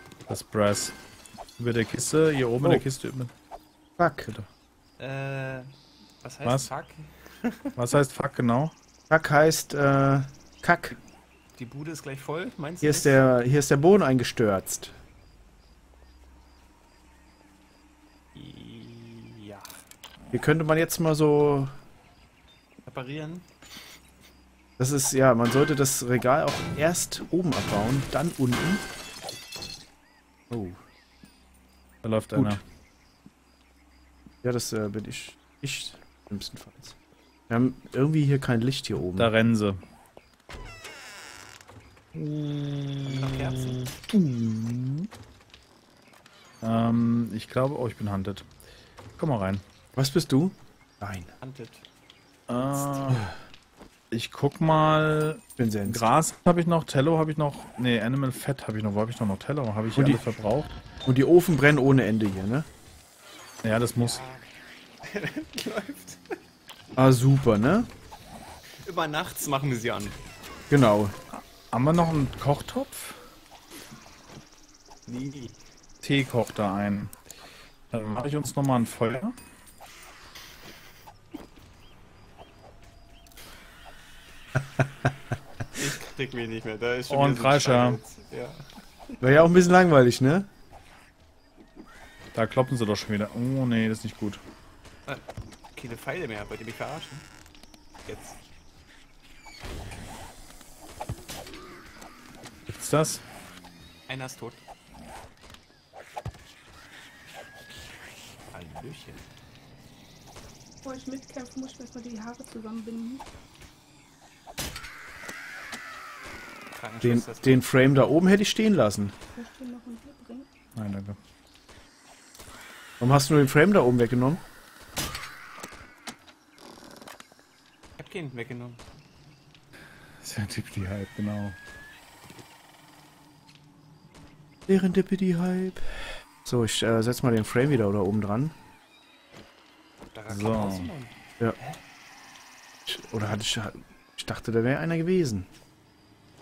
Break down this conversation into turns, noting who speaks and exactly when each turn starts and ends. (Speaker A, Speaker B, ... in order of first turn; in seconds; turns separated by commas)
Speaker A: 0.3-0.9, Speaker A: 1.6-3.3, Speaker B: 4.0-4.3, Speaker C: 5.0-5.7, Speaker C: 6.2-7.8, Speaker A: 6.4-6.7, Speaker A: 7.8-8.7, Speaker B: 9.1-11.0, Speaker C: 11.6-13.2, Speaker B: 12.8-14.9, Speaker C: 18.3-19.8, Speaker B: 20.3-21.7, Speaker C: 22.8-23.5, Speaker B: 24.8-28.9, Speaker B: 30.5-30.8, Speaker A: 32.0-32.6, Speaker B: 32.3-32.6, Speaker B: 34.4-36.9, Speaker B: 37.5-39.3, Speaker A: 39.1-39.8, Speaker A: 42.1-45.1, Speaker C: 43.0-43.9, Speaker A: 46.6-48.5, Speaker A: 49.2-49.6, Speaker B: 50.0-51.3, Speaker C: 51.4-51.8, Speaker A: 52.5-53.3, Speaker A: 54.1-60.7, Speaker B: 55.6-56.0, Speaker B: 59.9-60.2, Speaker B: 61.0-62.7, Speaker A: 63.6-64.2, Speaker C: 65.0-66.4, Speaker B: 67.0-67.9, Speaker C: 68.8-70.2, Speaker B: 70.7-71.2, Speaker A: 71.3-73.2, Speaker C: 75.1-75.6, Speaker A: 76.0-77.1, Speaker A: 77.9-79.3, Speaker C: 85.7-88.7, Speaker A: 87.1-88.0, Speaker B: 89.2-90.5, Speaker A: 92.3-94.4, Speaker C: 95.0-97.2, Speaker C: 98.0-98.3, Speaker A: 102.7-103.2, Speaker C: 104.1-104.6, Speaker C: 108.5-109.2, Speaker D: 110.8-113.2, Speaker C: 116.7-117.6, Speaker B: 117.0-119.1, Speaker D: 119.3-120.5, Speaker A: 120.8-121.2, Speaker B: 123.0-124.4, Speaker C: 128.0-128.8, Speaker A: 130.2-131.6, Speaker B: 134.7-138.5, Speaker C: 140.1-141.8, Speaker A: 140.3-140.9, Speaker B: 142.8-145.5